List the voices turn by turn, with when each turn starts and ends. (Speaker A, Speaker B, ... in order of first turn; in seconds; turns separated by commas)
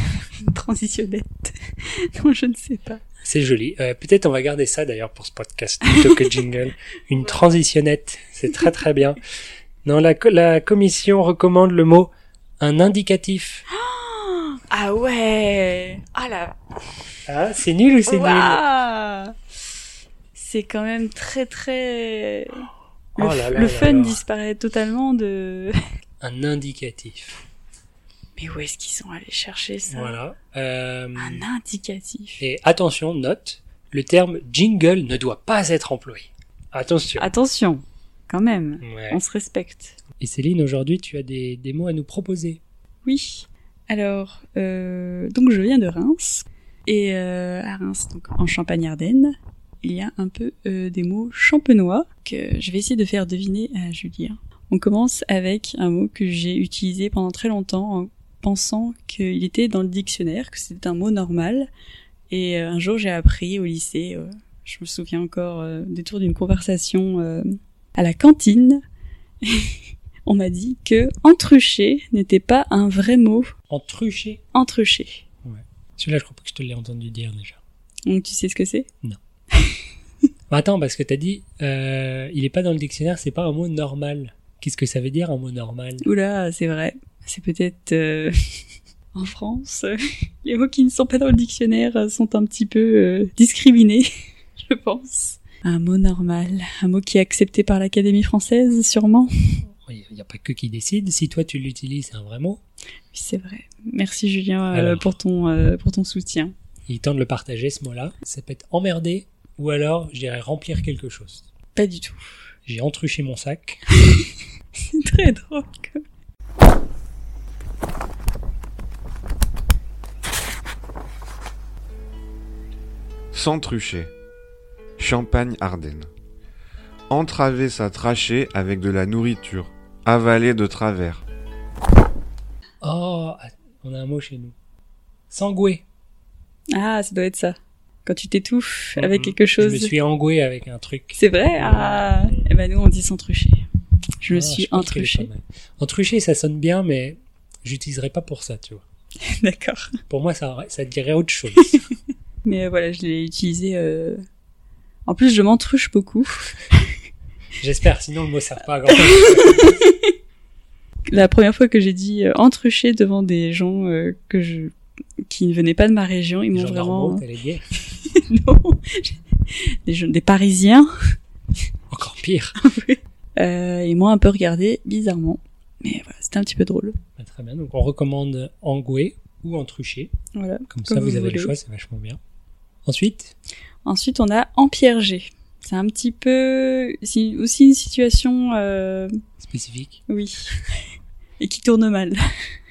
Speaker A: 0.4-3.0, Speaker B: 3.2-9.2, Speaker A: 5.8-6.4, Speaker B: 9.8-13.6, Speaker A: 13.7-16.6, Speaker B: 17.3-18.6, Speaker A: 18.1-19.3, Speaker A: 20.3-25.7, Speaker B: 23.2-24.2, Speaker B: 26.2-27.4, Speaker A: 28.4-30.2, Speaker B: 29.9-31.4, Speaker A: 31.1-32.4, Speaker B: 32.4-37.3, Speaker A: 37.2-40.0, Speaker B: 38.8-39.2, Speaker B: 40.2-42.6, Speaker A: 43.0-61.7, Speaker A: 62.3-68.8, Speaker A: 69.4-69.7, Speaker A: 70.2-73.5, Speaker B: 73.7-74.4, Speaker A: 74.5-75.2, Speaker B: 75.4-77.6, Speaker A: 78.0-78.9, Speaker B: 80.5-86.0, Speaker A: 86.0-88.3, Speaker A: 89.1-89.9, Speaker A: 90.4-99.3, Speaker B: 99.8-102.6, Speaker A: 103.1-106.5, Speaker B: 104.7-105.1, Speaker B: 106.9-111.5, Speaker A: 111.8-112.3, Speaker B: 112.7-113.8, Speaker A: 114.0-114.3, Speaker A: 114.9-116.0, Speaker C: 123.3-124.1, Speaker C: 125.0-126.1, Speaker C: 127.1-131.2, Speaker B: 132.8-134.5, Speaker B: 135.3-135.8, Speaker A: 136.7-137.5, Speaker A: 138.1-139.9, Speaker B: 139.0-142.4, Speaker A: 141.1-143.6, Speaker A: 144.2-145.3, Speaker B: 144.3-148.8, Speaker A: 149.2-149.9, Speaker B: 150.1-151.8, Speaker A: 152.4-154.2, Speaker A: 155.1-156.5, Speaker B: 157.6-159.8, Speaker A: 158.9-159.9, Speaker A: 161.1-164.7, Speaker A: 165.3-167.2, Speaker B: 166.5-167.6, Speaker A: 167.9-169.2, Speaker A: 169.8-170.9, Speaker B: 171.9-172.6, Speaker A: 172.6-177.0, Speaker B: 177.2-180.1, Speaker A: 180.3-181.5, Speaker B: 180.7-182.2, Speaker B: 182.8-183.3, Speaker A: 183.8-189.1, Speaker B: 189.4-190.0, Speaker A: 190.1-190.8, Speaker A: 191.4-192.2